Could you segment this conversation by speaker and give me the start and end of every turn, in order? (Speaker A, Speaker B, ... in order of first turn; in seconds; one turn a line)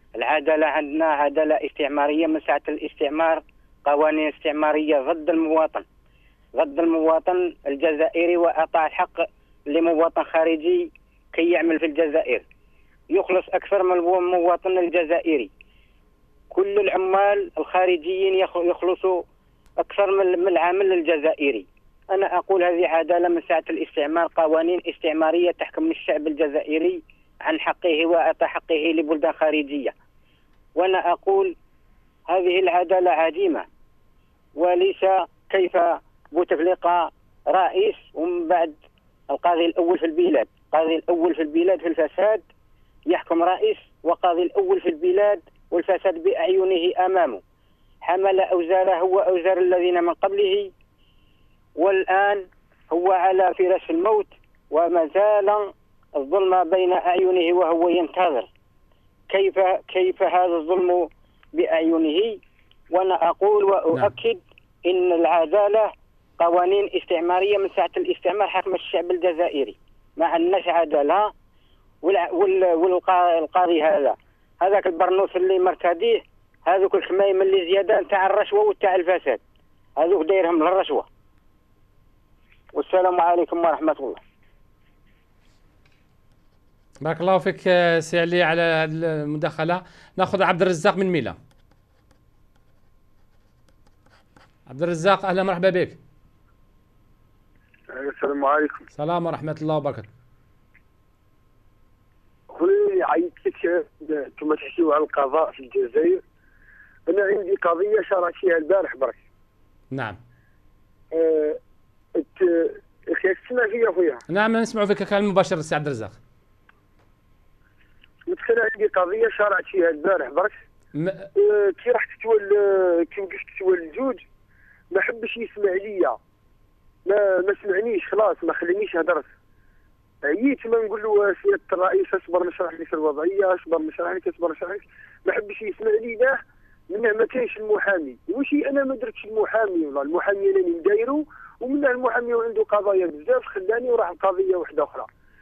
Speaker A: 0.2-5.8
Speaker A: 6.6-12.4
Speaker A: 13.1-15.5
Speaker A: 16.5-19.2
Speaker A: 19.8-29.9
Speaker A: 30.8-31.5
Speaker A: 32.3-33.6
Speaker A: 34.6-38.8
Speaker A: 39.3-42.4
Speaker A: 43.1-47.4
Speaker A: 48.0-50.7
Speaker A: 51.8-58.5
Speaker A: 59.3-62.4
Speaker A: 62.9-71.3
Speaker A: 72.0-79.4
Speaker A: 80.0-81.1
Speaker A: 82.8-84.2
Speaker B: 87.0-91.4
Speaker B: 94.7-96.0
Speaker C: 98.0-98.9
Speaker B: 99.0-100.1
Speaker C: 102.5-106.2
Speaker C: 107.1-109.2
Speaker B: 109.9-110.2
Speaker C: 111.1-111.6
Speaker C: 112.2-114.2
Speaker B: 114.3-116.1
Speaker C: 118.3-120.6
Speaker B: 121.0-121.3
Speaker C: 121.3-124.2
Speaker C: 124.9-126.2
Speaker C: 127.1-129.3
Speaker C: 130.2-145.1